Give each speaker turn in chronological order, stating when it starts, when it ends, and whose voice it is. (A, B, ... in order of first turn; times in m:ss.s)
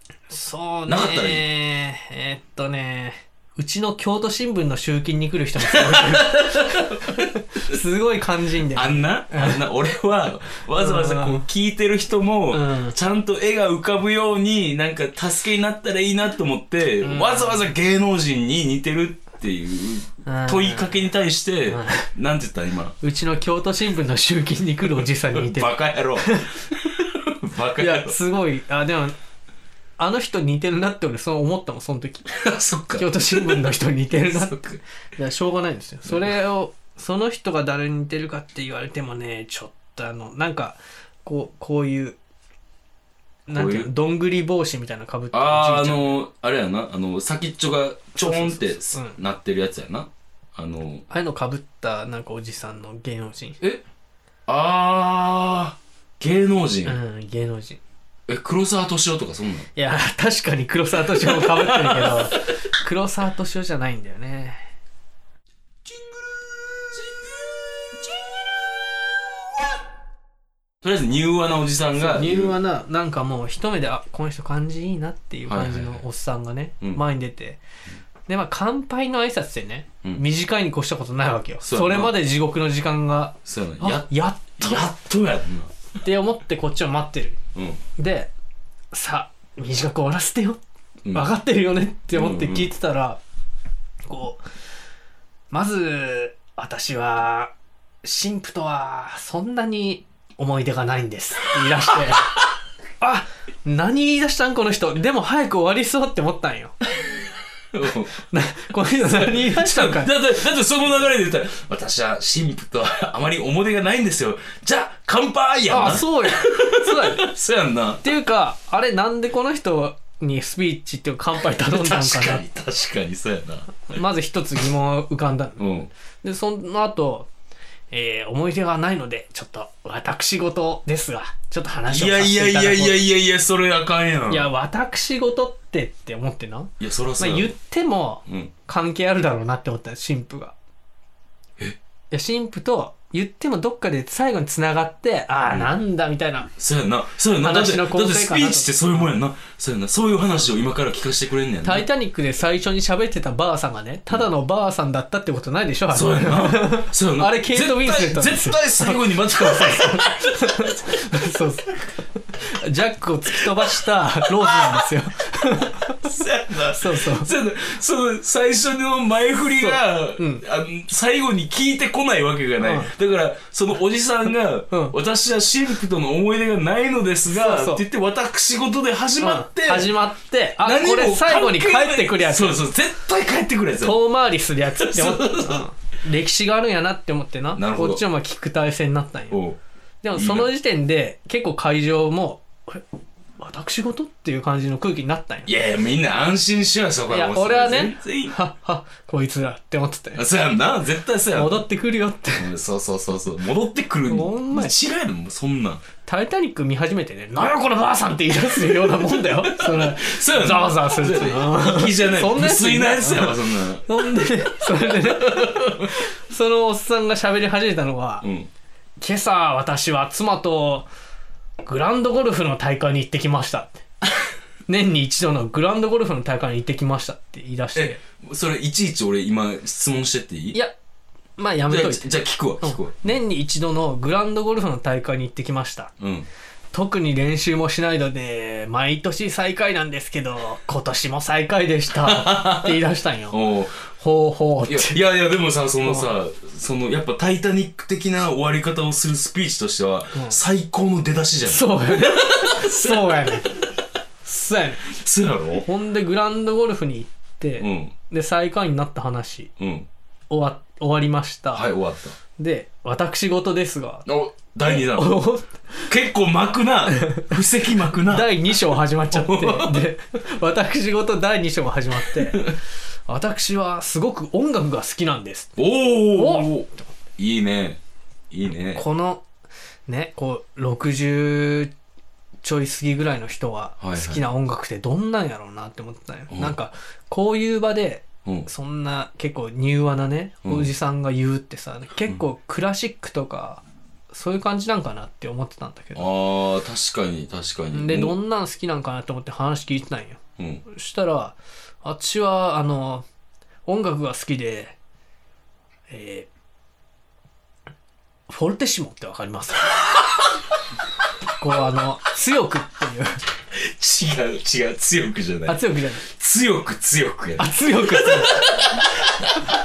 0:00.3-0:09.6 A
0:00.9-0:01.4 B
0:05.6-0:07.6 B
0:08.7-0:23.0 B
0:10.8-0:11.5 A
0:12.5-0:13.0 A
0:17.0-0:17.6 A
0:20.2-0:21.0 A
0:21.7-0:22.1 A
0:23.0-0:26.6 A
0:25.3-0:28.2 B
0:27.8-0:29.2 A
0:30.0-0:32.3 A
0:32.3-0:33.7 B
0:32.9-0:34.6 A
0:34.2-0:34.8 B
0:35.2-0:42.2 A
0:36.1-0:36.3 B
0:43.5-0:46.2 A
0:43.5-0:43.9 B
0:45.3-0:51.0 B
0:48.2-0:49.2 A
0:51.1-0:53.6 A
0:54.5-0:57.0 B
0:56.8-0:57.8 A
0:58.3-0:59.7 B
0:59.8-1:04.7 A
1:01.2-1:02.5 B
1:05.9-1:09.1 B
1:10.8-1:12.6 B
1:12.0-1:17.6 A
1:15.5-1:16.0 B
1:18.3-1:24.9 A
1:21.6-1:22.2 B
1:23.5-1:25.7 B
1:26.0-1:27.4 A
1:27.6-1:27.8 B
1:28.0-1:28.3 A
1:28.9-1:30.6 A
1:31.0-1:31.3 B
1:31.1-1:33.2 A
1:32.1-1:32.7 B
1:34.1-1:34.4 A
1:35.5-1:37.5 A
1:38.0-1:42.4 A
1:43.0-1:46.8 A
1:47.7-1:48.2 B
1:48.2-1:50.1 A
1:48.9-1:58.0 B
1:55.7-1:57.3 A
1:58.0-2:02.4 A
2:01.4-2:03.9 B
2:03.8-2:05.6 A
2:05.6-2:05.9 B
2:06.2-2:07.3 A
2:07.9-2:13.0 A
2:11.9-2:14.5 B
2:14.3-2:20.6 A
2:16.8-2:17.5 B
2:18.3-2:18.5 B
2:22.1-2:26.5 A
2:26.6-2:31.9 B
2:27.4-2:29.1 A
2:31.6-2:46.1 A
2:35.9-2:40.8 B
2:44.5-2:44.8 B
2:45.6-3:00.0 B
2:46.7-2:47.3 A
2:49.6-2:50.4 A
2:52.6-2:52.9 A
2:57.3-2:57.8 A
2:59.2-3:02.6 A
3:00.6-3:04.0 B
3:03.8-3:09.4 A
3:04.8-3:05.7 B
3:07.6-3:08.0 B
3:09.3-3:09.6 B
3:10.0-3:12.8 A
3:10.1-3:10.5 B
3:13.4-3:15.5 A
3:15.5-3:18.4 B
3:17.1-3:20.2 A
3:20.1-3:21.6 B
3:21.3-3:22.5 A
3:22.3-3:25.8 B
3:24.1-3:24.8 A
3:26.1-3:38.3 A
3:28.9-3:36.0 B
3:38.2-3:38.5 B
3:39.0-3:40.9 A
3:41.6-3:43.8 A
3:44.7-3:48.0 A
3:47.7-3:50.6 B
3:51.4-3:52.1 A
3:51.7-3:53.1 B
3:52.6-3:55.9 A
3:56.0-3:56.3 B
3:56.7-4:05.0 A
4:02.0-4:03.8 B
4:04.7-4:13.4 B
4:11.5-4:13.5 A
4:14.2-4:14.8 A
4:14.9-4:15.7 B
4:15.6-4:19.5 A
4:17.6-4:17.9 B
4:19.6-4:19.9 B
4:20.3-4:21.7 A
4:21.5-4:22.2 B
4:22.4-4:24.1 A
4:24.1-4:25.2 B
4:24.7-4:25.9 A
4:25.9-4:28.6 B
4:26.9-4:27.4 A
4:28.0-4:32.6 A
4:29.1-4:29.9 B
4:32.1-4:32.5 B
4:33.1-4:35.6 A
4:35.6-4:37.8 B
4:36.1-4:36.9 A
4:38.3-4:38.8 B
4:38.7-4:39.2 A
4:39.9-4:41.7 A
4:42.4-4:56.1 A
4:43.8-4:44.2 B
4:50.4-4:50.7 B
4:56.0-4:58.2 B
4:57.7-5:03.0 A
5:00.4-5:00.6 B
5:03.7-5:04.8 A
5:05.9-5:06.3 A
5:08.3-5:09.8 A
5:11.4-5:13.2 A
5:13.5-5:19.3 B
5:15.5-5:16.1 A
5:17.4-5:18.5 A